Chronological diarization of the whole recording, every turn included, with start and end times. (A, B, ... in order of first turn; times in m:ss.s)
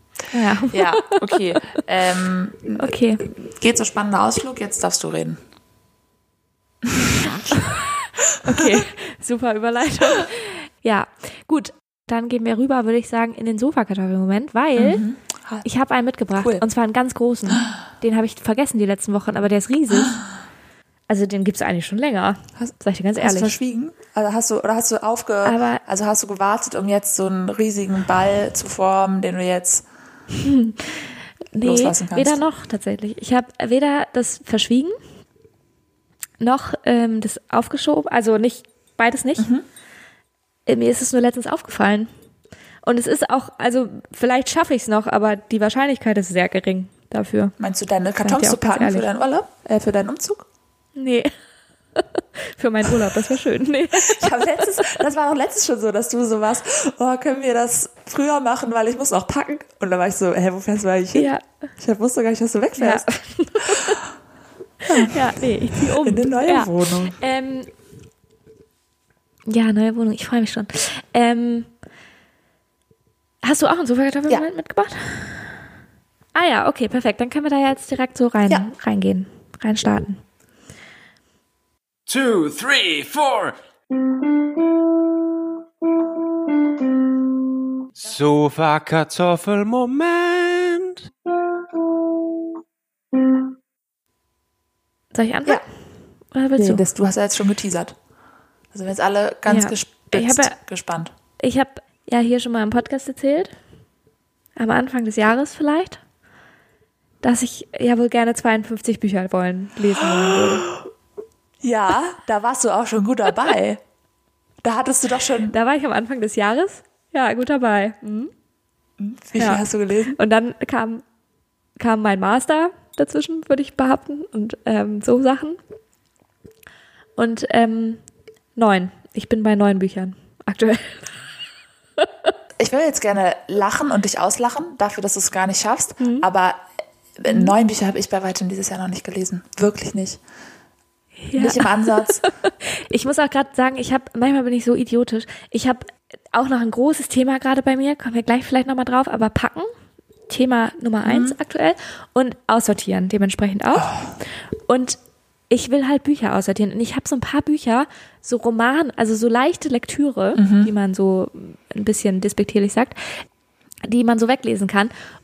0:00.3-0:01.8 A
0:00.7-0:05.4 B
0:02.8-0:03.2 A
0:06.8-0:07.6 B
0:07.3-0:15.0 A
0:08.6-0:08.8 B
0:14.8-0:15.6 B
0:15.6-0:20.2 A
0:16.4-0:16.6 B
0:21.1-0:23.5 A
0:22.6-0:29.8 B
0:25.4-0:25.8 A
0:30.4-0:35.0 A
0:31.6-0:32.4 B
0:36.4-0:39.5 A
0:39.4-0:39.6 B
0:40.6-0:42.1 A
0:42.8-0:47.5 A
0:47.6-0:50.4 B
0:48.2-0:49.1 A
0:51.0-0:51.3 A
0:52.0-0:55.0 A
0:53.9-1:03.0 B
1:01.1-1:01.4 A
1:02.8-1:04.0 A
1:04.8-1:07.7 A
1:04.9-1:05.2 B
1:05.8-1:07.1 B
1:09.5-1:11.7 A
1:13.4-1:15.6 A
1:16.3-1:20.2 A
1:22.1-1:24.9 C
1:26.0-1:26.9 C
1:28.0-1:32.5 C
1:35.1-1:35.6 A
1:36.3-1:36.8 A
1:36.6-1:37.9 B
1:38.7-1:41.1 B
1:39.5-1:40.6 A
1:41.4-1:43.5 A
1:44.6-1:46.0 A
1:47.2-1:50.7 A
1:50.0-1:50.8 B
1:51.6-1:53.8 B
1:54.6-1:55.6 B
1:55.5-1:58.3 A
1:59.0-2:00.2 B
2:00.1-2:01.0 A
2:01.8-2:05.6 A
2:07.2-2:08.0 A
2:08.6-2:11.1 A
2:12.0-2:12.3 A
2:12.6-2:16.6 B
2:16.0-2:16.2 A
2:17.2-2:20.2 B
2:17.3-2:17.5 A
2:21.2-2:29.7 A
2:21.4-2:22.2 B
2:30.3-2:35.0 A
2:31.0-2:31.4 B
2:33.7-2:34.1 B
2:35.5-2:43.2 A
2:40.4-2:40.7 B
2:43.8-2:44.9 A